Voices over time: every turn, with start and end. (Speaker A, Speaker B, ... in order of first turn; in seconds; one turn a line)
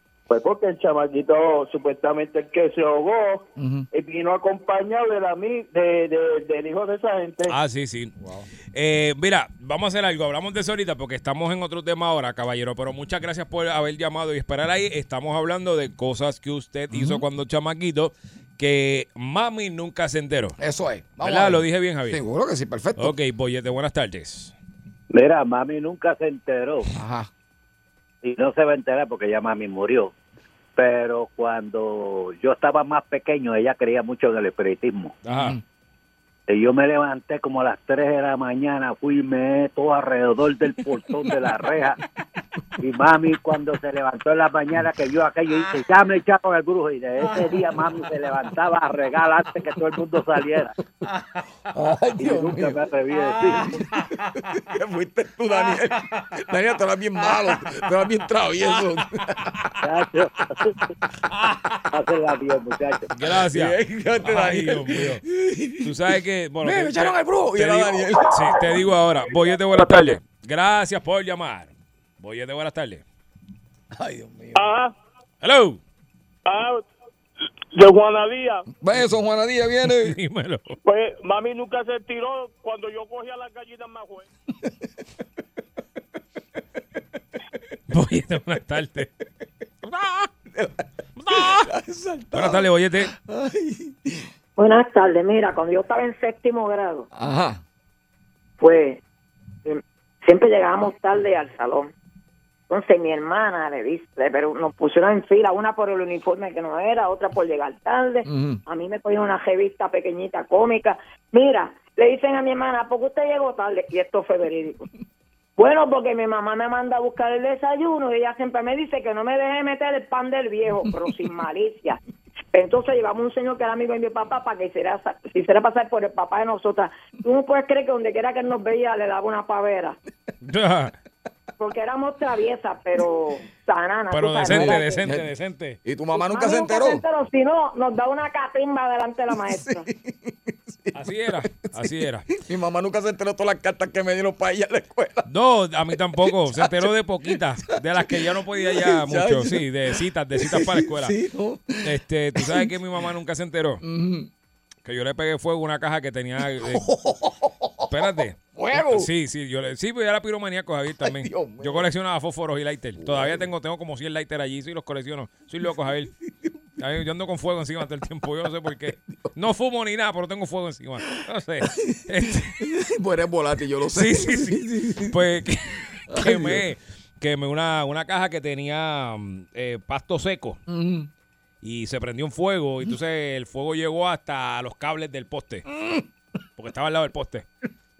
Speaker A: 0.3-7.5
Speaker B: 3.6-3.9
Speaker C: 7.5-8.1
Speaker B: 8.2-8.5
Speaker C: 8.7-20.6
Speaker B: 16.9-17.2
Speaker B: 20.6-23.2
Speaker C: 21.2-22.2
Speaker C: 23.0-24.5
Speaker D: 25.1-26.9
Speaker B: 26.9-27.3
Speaker D: 28.2-30.1
Speaker D: 30.8-35.1
Speaker C: 35.2-35.6
Speaker B: 35.3-35.6
Speaker D: 36.5-42.0
Speaker D: 42.8-50.7
Speaker B: 51.7-52.8
Speaker D: 52.2-53.8
Speaker C: 53.9-54.3
Speaker B: 54.5-59.6
Speaker D: 59.8-60.5
Speaker C: 61.5-61.7
Speaker D: 61.9-63.1
Speaker C: 63.1-65.2
Speaker B: 63.5-66.0
Speaker C: 65.8-73.0
Speaker B: 66.6-68.7
Speaker B: 73.9-74.7
Speaker E: 74.5-74.9
Speaker C: 75.4-75.8
Speaker E: 76.5-76.8
Speaker E: 77.7-78.7
Speaker B: 78.8-80.2
Speaker C: 79.9-80.8
Speaker E: 80.8-84.3
Speaker C: 87.9-89.1
Speaker C: 90.0-90.2
Speaker B: 90.5-94.3
Speaker C: 91.2-91.7
Speaker C: 92.3-93.1
Speaker F: 94.6-97.1
Speaker B: 97.1-97.6
Speaker F: 98.6-99.0
Speaker F: 99.6-101.9
Speaker F: 102.7-114.9
Speaker B: 108.2-108.6
Speaker F: 115.6-122.0
Speaker F: 122.5-130.0
Speaker C: 130.4-130.9
Speaker F: 131.6-135.0
Speaker C: 134.1-135.8
Speaker B: 134.5-135.3
Speaker B: 135.8-137.0
Speaker F: 136.1-139.8
Speaker B: 139.3-141.8
Speaker C: 140.9-142.3
Speaker B: 142.3-145.3
Speaker C: 145.3-151.1
Speaker B: 146.4-146.9
Speaker B: 147.8-149.6
Speaker B: 150.3-152.7
Speaker C: 151.8-153.8
Speaker B: 153.8-154.3
Speaker C: 154.8-156.8
Speaker B: 156.6-159.1
Speaker C: 157.9-166.1
Speaker B: 161.0-161.9
Speaker B: 163.0-163.5
Speaker C: 166.8-172.5
Speaker B: 168.9-169.4
Speaker B: 171.8-175.2
Speaker C: 173.9-180.6
Speaker B: 176.1-176.6
Speaker B: 180.7-181.1
Speaker C: 181.6-185.6
Speaker B: 185.7-186.0
Speaker C: 186.6-187.4